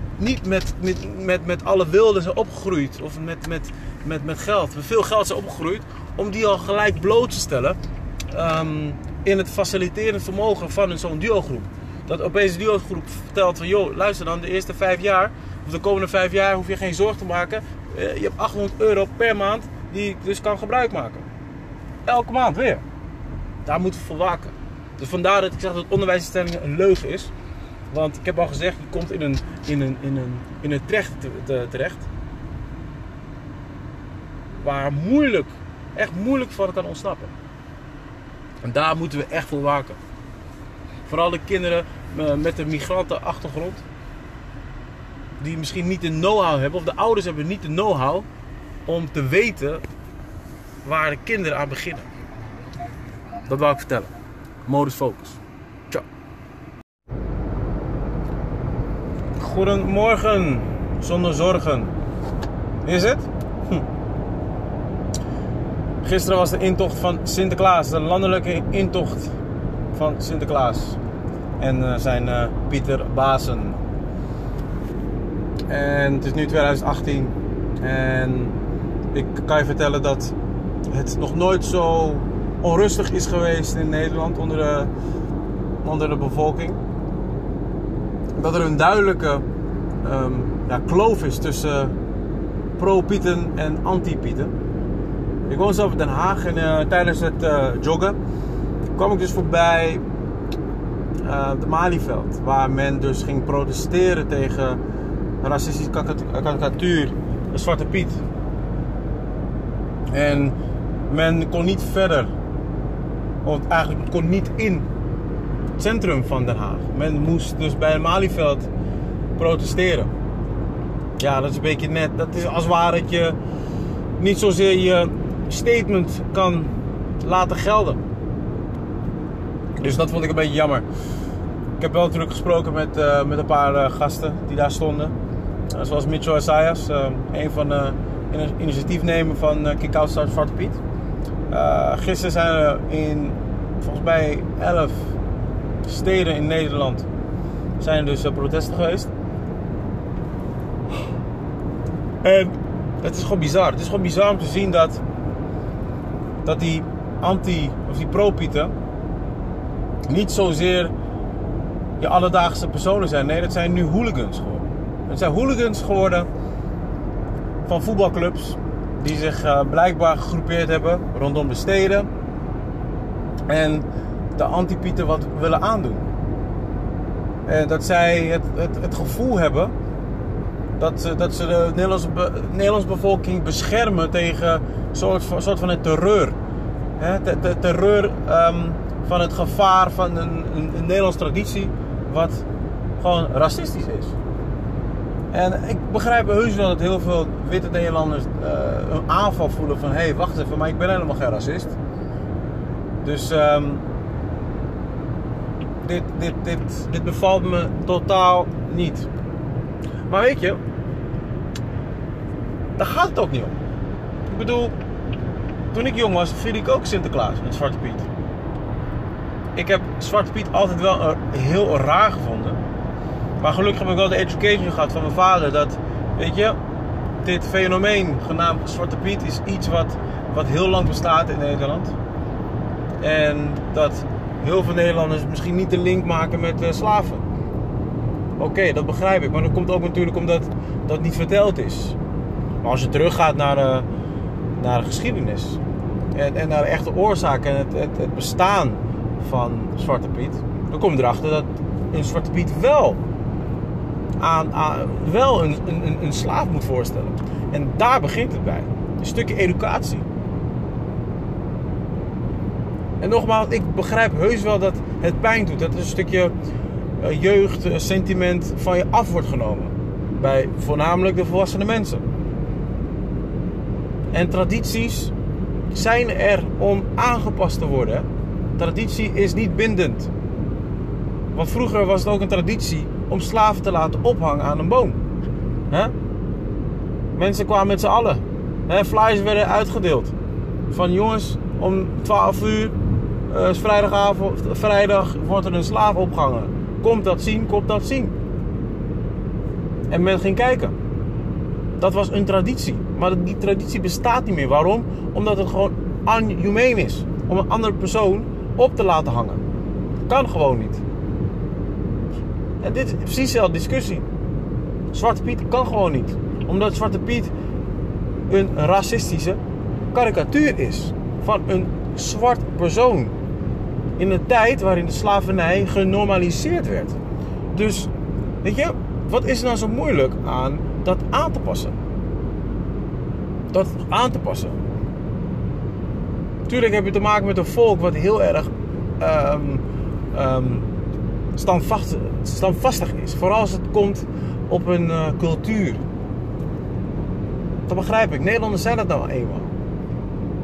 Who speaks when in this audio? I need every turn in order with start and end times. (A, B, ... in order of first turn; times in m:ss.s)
0:00.2-0:07.8 A
0:08.3-0:21.2 A
0:22.1-0:22.8 A
0:23.6-0:27.3 A
0:27.9-0:32.1 A
0:34.6-0:37.4 A
0:38.6-0:40.0 A
0:41.1-0:43.8 A
0:45.4-0:48.2 A
0:48.9-0:49.8 A
0:50.8-0:52.1 A
0:53.5-0:54.1 A
0:54.6-0:55.4 A
0:59.4-1:02.0 A
1:02.8-1:03.8 A
1:06.0-1:09.3 A
1:09.9-1:11.0 A
1:11.6-1:13.8 A
1:15.7-1:18.6 A
1:19.1-1:20.3 A
1:20.9-1:24.9 A
1:25.8-1:26.8 A
1:28.4-1:29.4 A
1:30.0-1:32.0 A
1:32.8-1:34.5 A
1:35.5-1:38.2 A
1:39.0-1:40.0 A
1:41.2-1:44.8 A
1:45.4-1:48.2 A
1:50.1-1:50.6 A
1:51.1-1:52.3 A
1:53.4-1:54.9 A
1:55.8-1:58.7 A
1:59.4-2:00.1 A
2:01.2-2:03.4 A
2:04.2-2:08.0 A
2:09.8-2:10.8 A
2:11.8-2:15.1 A
2:15.7-2:20.8 A
2:21.5-2:25.2 A
2:25.8-2:27.1 A
2:27.8-2:29.1 A
2:32.2-2:35.0 A
2:36.4-2:38.7 A
2:40.1-2:40.9 A
2:42.0-2:46.3 A
2:47.6-2:52.1 A
2:53.5-2:56.0 A
2:57.5-2:59.7 A
3:00.8-3:06.4 A
3:07.0-3:12.5 A
3:13.0-3:14.2 A
3:15.3-3:21.8 A
3:23.0-3:23.8 A
3:25.8-3:29.1 A
3:30.1-3:30.6 A
3:32.8-3:33.6 A
3:34.3-3:34.7 A
3:35.7-3:38.1 A
3:39.6-3:42.6 A
3:43.4-3:46.6 A
3:47.2-3:52.0 A
3:53.0-3:57.2 A
3:58.4-4:02.0 A
4:02.6-4:03.9 A
4:04.6-4:05.6 A
4:06.1-4:13.0 A
4:14.2-4:20.0 A
4:23.0-4:26.3 A
4:27.0-4:32.0 A
4:34.1-4:35.1 A
4:35.7-4:40.1 A
4:41.3-4:45.0 A
4:47.2-4:50.1 A
4:50.7-4:52.8 A
4:53.3-4:58.1 A
4:59.9-5:00.7 A
5:01.8-5:09.4 A
5:10.1-5:10.8 A
5:12.6-5:14.0 A
5:14.9-5:17.3 A
5:18.3-5:19.4 A
5:19.9-5:23.1 A
5:24.0-5:27.0 A
5:27.5-5:27.9 A
5:28.4-5:31.8 A
5:33.5-5:34.6 A
5:36.5-5:40.7 A
5:41.4-5:45.8 A
5:47.7-5:49.5 A